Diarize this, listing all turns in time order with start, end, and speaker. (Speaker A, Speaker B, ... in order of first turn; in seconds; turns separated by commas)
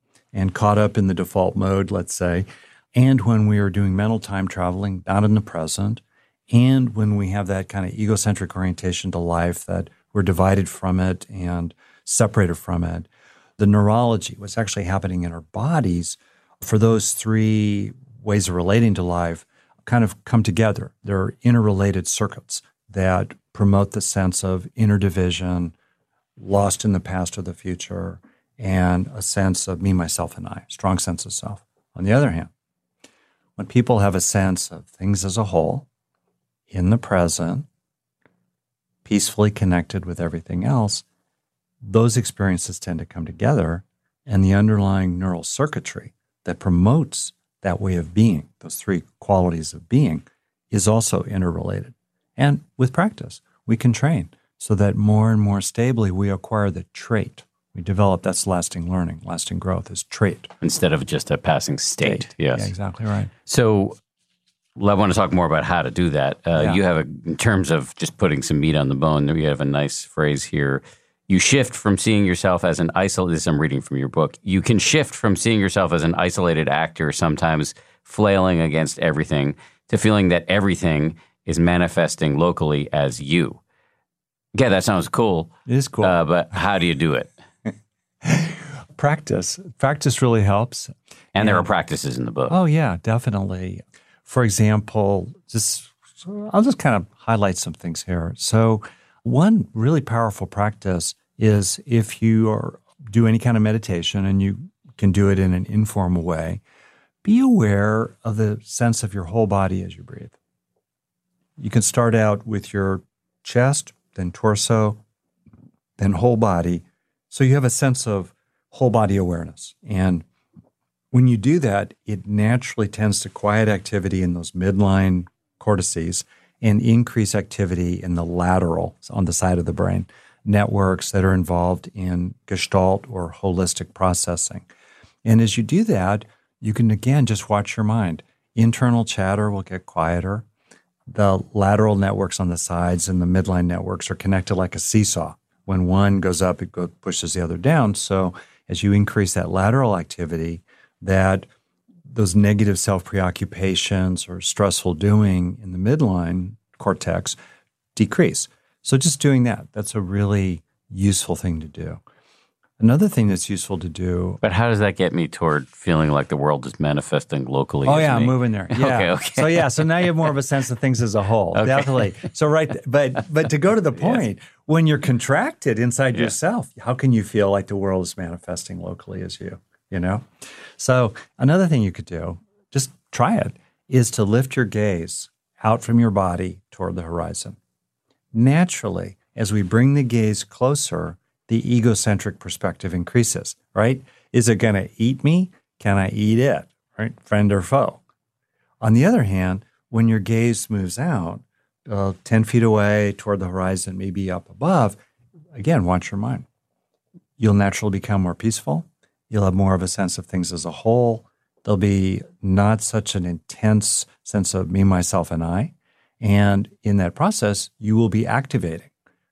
Speaker A: 0.3-25.7, Speaker A: 26.4-32.5, Speaker A: 33.6-35.9, Speaker A: 36.7-37.6, Speaker A: 39.0-41.0, Speaker A: 41.8-60.5, Speaker B: 60.6-62.7, Speaker A: 62.0-63.3, Speaker B: 63.5-64.0, Speaker B: 64.8-83.6, Speaker A: 66.5-66.8, Speaker B: 84.5-87.3, Speaker A: 85.7-86.2, Speaker A: 88.2-91.7, Speaker B: 91.3-92.6, Speaker A: 92.5-106.6, Speaker A: 107.2-110.4, Speaker A: 111.6-115.0, Speaker A: 116.0-120.2, Speaker A: 121.1-134.7, Speaker A: 135.2-140.4, Speaker A: 141.1-151.5, Speaker A: 152.1-157.4, Speaker A: 157.9-162.0, Speaker A: 162.8-164.4, Speaker B: 164.4-170.3, Speaker A: 167.8-187.6, Speaker B: 171.6-172.1, Speaker B: 173.9-174.2, Speaker A: 188.3-198.0, Speaker A: 198.8-205.0, Speaker A: 205.5-206.4, Speaker A: 207.4-218.9